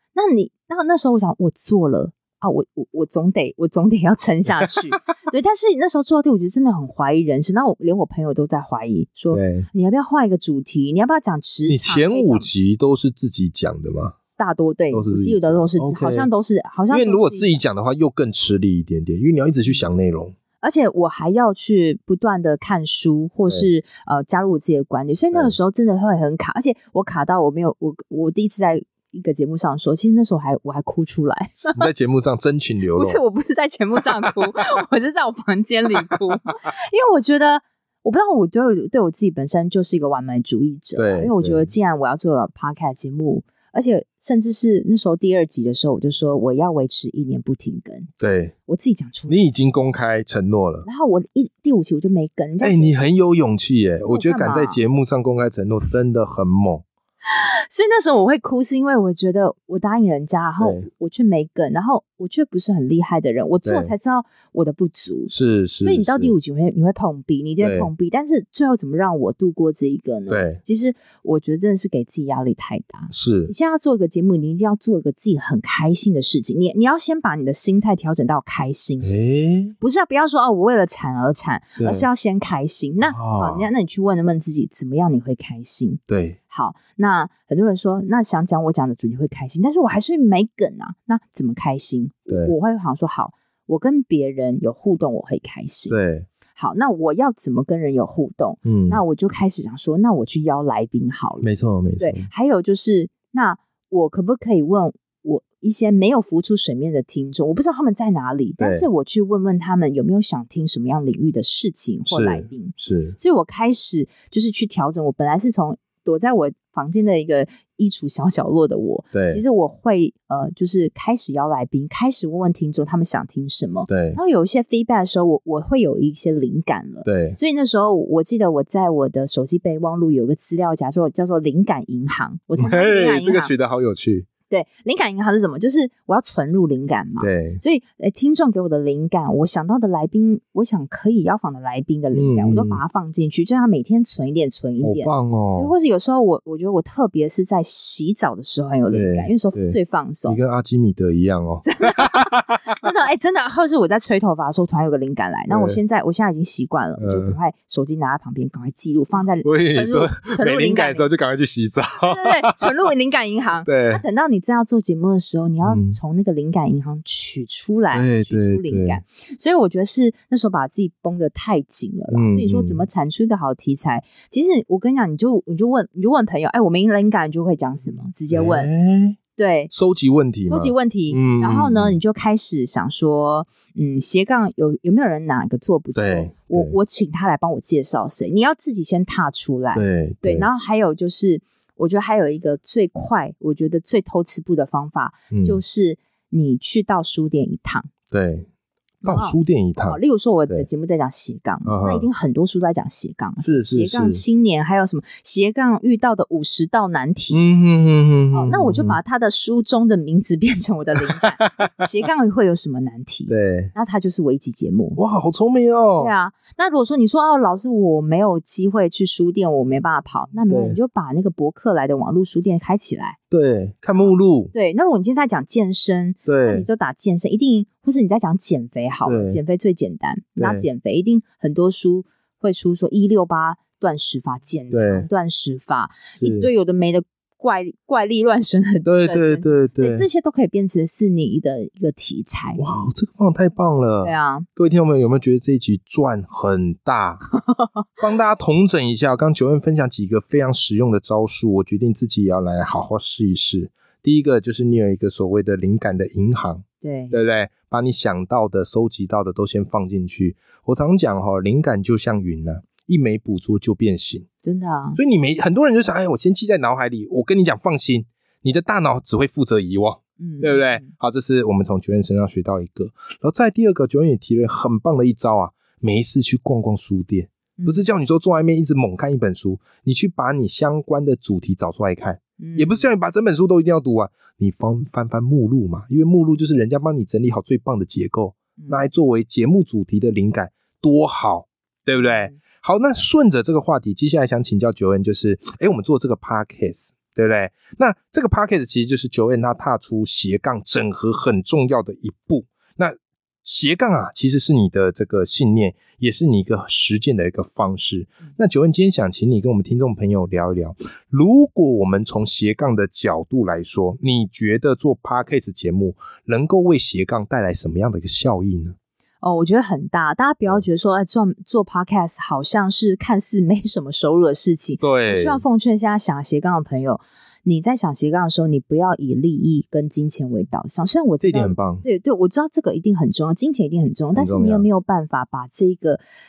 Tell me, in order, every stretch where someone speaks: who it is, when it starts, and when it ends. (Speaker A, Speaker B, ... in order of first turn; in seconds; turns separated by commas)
Speaker A: 0.1-12.5, Speaker B: 9.3-9.7, Speaker B: 11.7-14.2, Speaker A: 14.4-17.6, Speaker B: 14.9-16.3, Speaker B: 16.9-20.4, Speaker A: 20.6-31.9, Speaker B: 31.6-33.2, Speaker A: 33.0-48.1, Speaker B: 41.0-41.7, Speaker B: 48.2-48.5, Speaker A: 48.7-49.4, Speaker B: 49.3-50.9, Speaker A: 50.9-53.0, Speaker B: 52.6-56.8, Speaker A: 54.0-54.8, Speaker A: 57.2-65.3, Speaker B: 60.6-60.9, Speaker B: 63.6-63.9, Speaker B: 65.3-66.3, Speaker A: 65.8-79.1, Speaker B: 67.6-67.9, Speaker B: 70.3-70.6, Speaker B: 73.1-73.5, Speaker B: 79.0-79.7, Speaker A: 79.8-96.0, Speaker B: 81.8-82.1, Speaker B: 83.0-83.7, Speaker B: 86.1-86.4, Speaker B: 95.9-96.3, Speaker A: 96.6-101.5, Speaker B: 98.7-99.0, Speaker B: 101.4-102.3, Speaker A: 102.0-133.5, Speaker B: 108.6-108.9, Speaker B: 112.1-113.2, Speaker B: 119.1-119.4, Speaker B: 123.9-124.2, Speaker B: 127.0-127.4, Speaker B: 132.6-134.3, Speaker A: 134.5-150.4, Speaker B: 137.2-137.6, Speaker B: 142.1-142.8, Speaker B: 144.8-145.7, Speaker B: 148.9-152.8, Speaker A: 151.6-161.1, Speaker B: 155.5-155.8, Speaker B: 157.0-157.4, Speaker B: 159.4-162.7, Speaker A: 162.0-178.7, Speaker B: 163.7-164.0, Speaker B: 165.6-166.0, Speaker B: 167.9-169.0, Speaker B: 172.1-172.8, Speaker B: 178.3-179.2, Speaker A: 179.4-179.7, Speaker B: 179.7-182.0, Speaker A: 180.5-197.9, Speaker B: 185.9-186.8, Speaker B: 189.7-190.5, Speaker B: 195.3-195.6, Speaker B: 198.1-198.5, Speaker A: 199.0-199.4, Speaker B: 199.0-200.7, Speaker A: 199.9-207.4, Speaker B: 201.7-202.1, Speaker B: 203.4-204.2, Speaker B: 207.3-209.0, Speaker A: 208.3-215.0, Speaker B: 211.2-211.7, Speaker B: 213.3-213.7, Speaker B: 215.0-216.1, Speaker A: 216.0-223.2, Speaker B: 220.5-220.8, Speaker B: 223.3-224.5, Speaker A: 224.0-242.6, Speaker B: 226.3-226.7, Speaker B: 229.1-229.4, Speaker B: 230.4-230.7, Speaker B: 234.7-235.1, Speaker B: 236.2-236.5, Speaker B: 238.8-240.1, Speaker B: 242.6-247.3, Speaker A: 244.0-244.5, Speaker A: 247.4-247.8, Speaker B: 248.0-264.3, Speaker A: 256.8-257.2, Speaker A: 264.4-265.0, Speaker B: 265.0-318.8, Speaker A: 270.2-270.9, Speaker A: 277.6-277.9, Speaker A: 282.4-282.9, Speaker A: 288.6-288.8, Speaker A: 292.0-292.4, Speaker A: 319.2-336.0, Speaker B: 324.8-325.4, Speaker B: 331.2-331.9, Speaker B: 334.1-334.7